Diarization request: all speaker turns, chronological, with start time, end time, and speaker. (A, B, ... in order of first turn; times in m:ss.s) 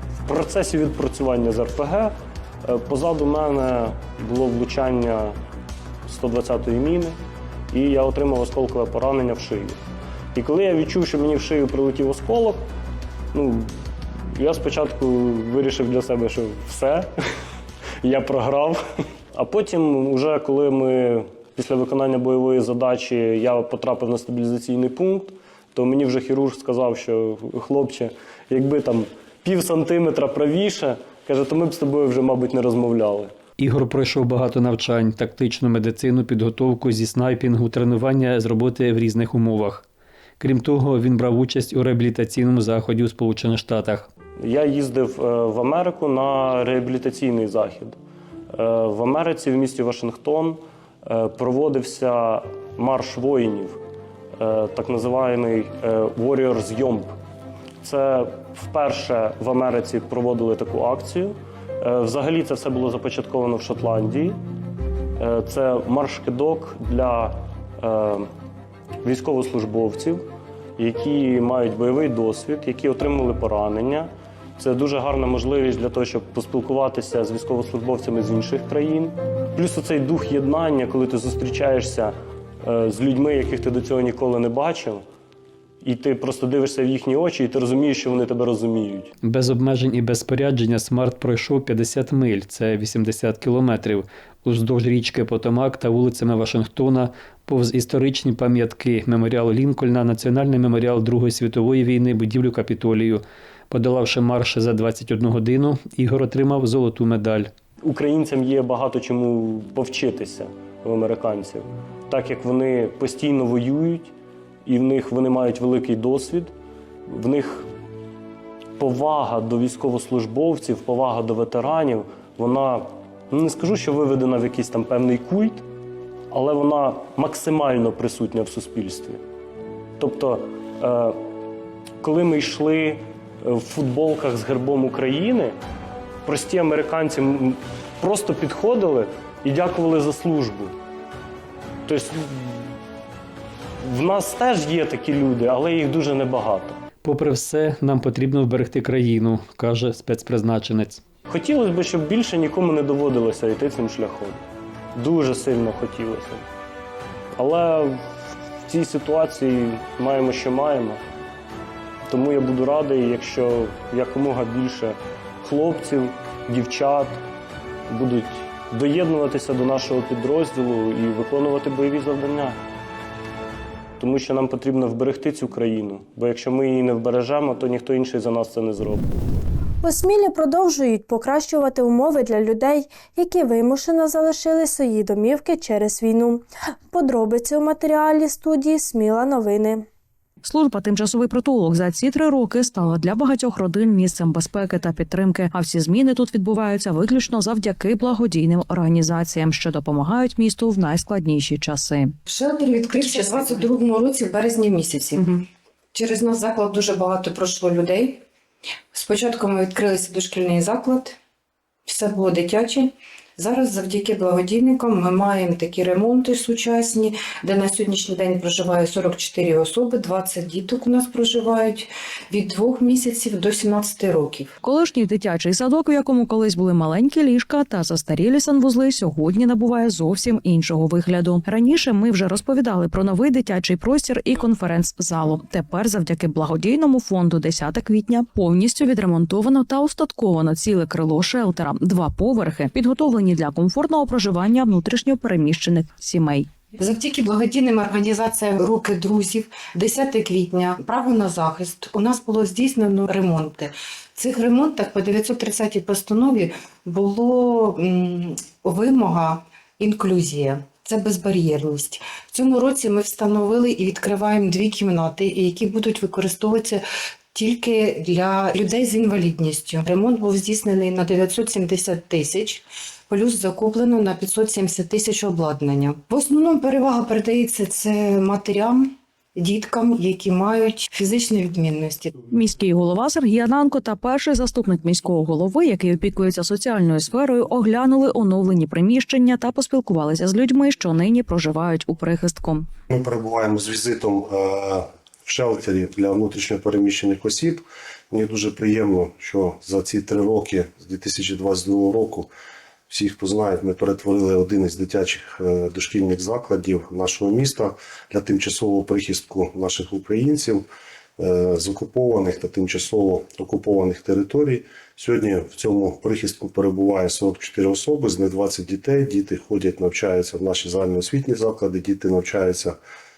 0:00.3-0:02.1 A
0:02.7-0:05.4 A
0:06.0-0:07.2 A
0:07.7-0:09.8 A
0:10.3-0:12.7 A
0:13.3-0:13.7 A
0:14.4-0:17.1 A
0:18.0-0:18.8 A
0:19.3-0:33.3 A
0:33.6-0:39.8 B
0:40.4-0:44.1 B
0:44.4-0:48.0 A
0:48.5-0:53.8 A
0:54.4-0:57.1 A
0:57.8-1:04.4 A
1:05.2-1:08.3 A
1:09.0-1:10.2 A
1:10.8-1:25.0 A
1:25.8-1:29.1 A
1:29.2-1:47.5 B
1:47.8-1:54.1 A
1:54.6-1:56.5 A
1:57.1-1:57.7 A
1:58.8-2:05.6 A
2:06.3-2:09.2 A
2:10.0-2:11.2 A
2:12.0-2:15.6 A
2:16.2-2:20.7 A
2:21.9-2:22.8 A
2:23.8-2:26.8 A
2:27.0-2:31.0 B
2:31.3-2:34.4 A
2:35.0-2:36.4 A
2:37.4-2:38.0 A
2:38.7-2:41.0 A
2:42.1-2:47.2 A
2:47.9-2:52.6 A
2:54.0-2:59.0 A
2:59.8-3:09.9 C
3:10.4-3:22.1 D
3:22.2-3:28.2 E
3:28.9-3:31.2 E
3:31.8-3:44.5 E
3:44.6-4:06.5 D
4:06.8-4:42.3 E
4:42.3-4:52.7 D
4:52.9-5:02.3 F
5:02.9-5:10.6 F
5:11.2-5:22.8 F